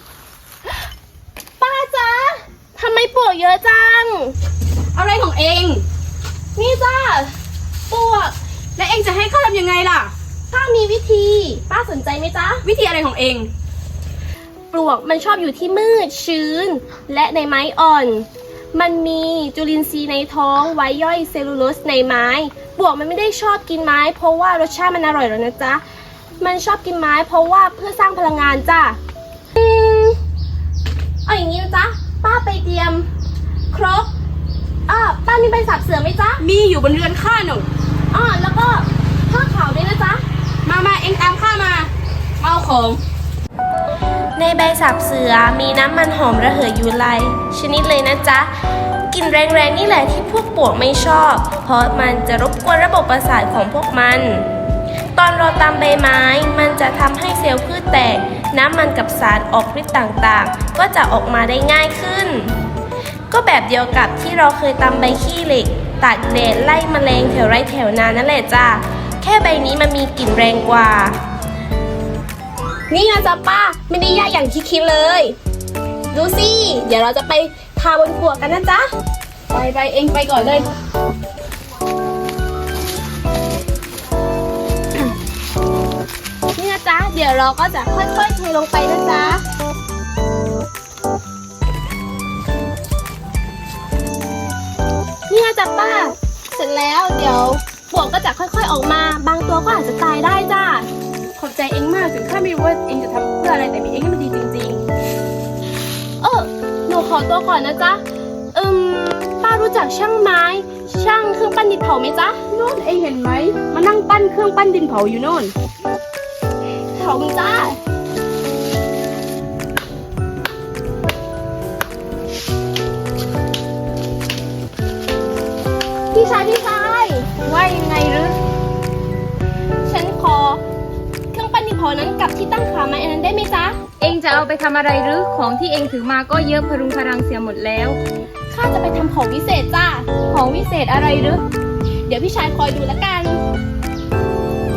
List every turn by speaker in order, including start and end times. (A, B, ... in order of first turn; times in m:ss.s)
0:01.6-0:04.3 A
0:05.0-0:05.8 B
0:06.6-0:07.3 A
0:07.9-0:08.3 A
0:08.8-0:10.1 B
0:10.5-0:12.6 A
0:12.6-0:13.5 B
0:14.7-0:25.8 A
0:26.4-0:29.0 A
0:29.6-0:30.2 A
0:31.2-0:33.1 A
0:33.7-0:34.1 A
0:34.9-0:36.4 A
0:36.4-0:37.7 B
0:38.1-0:40.2 A
0:40.6-0:41.9 B
0:42.4-0:43.0 B
0:44.4-0:48.5 A
0:49.1-0:54.5 A
0:55.2-1:02.6 A
1:03.3-1:11.2 A
1:12.9-1:15.4 A
1:16.1-1:18.9 A
1:19.5-1:20.7 B
1:26.5-1:29.4 A
1:35.3-1:40.9 A
1:41.4-1:44.8 B
1:46.2-1:48.0 A
1:48.5-1:52.4 A
1:52.5-1:55.5 B
1:56.9-1:57.8 A
2:06.1-2:07.3 A
2:07.4-2:08.4 C
2:09.8-2:10.6 A
2:11.3-2:13.8 A
2:14.0-2:18.0 C
2:18.5-2:20.1 A
2:20.3-2:21.4 C
2:22.0-2:23.4 A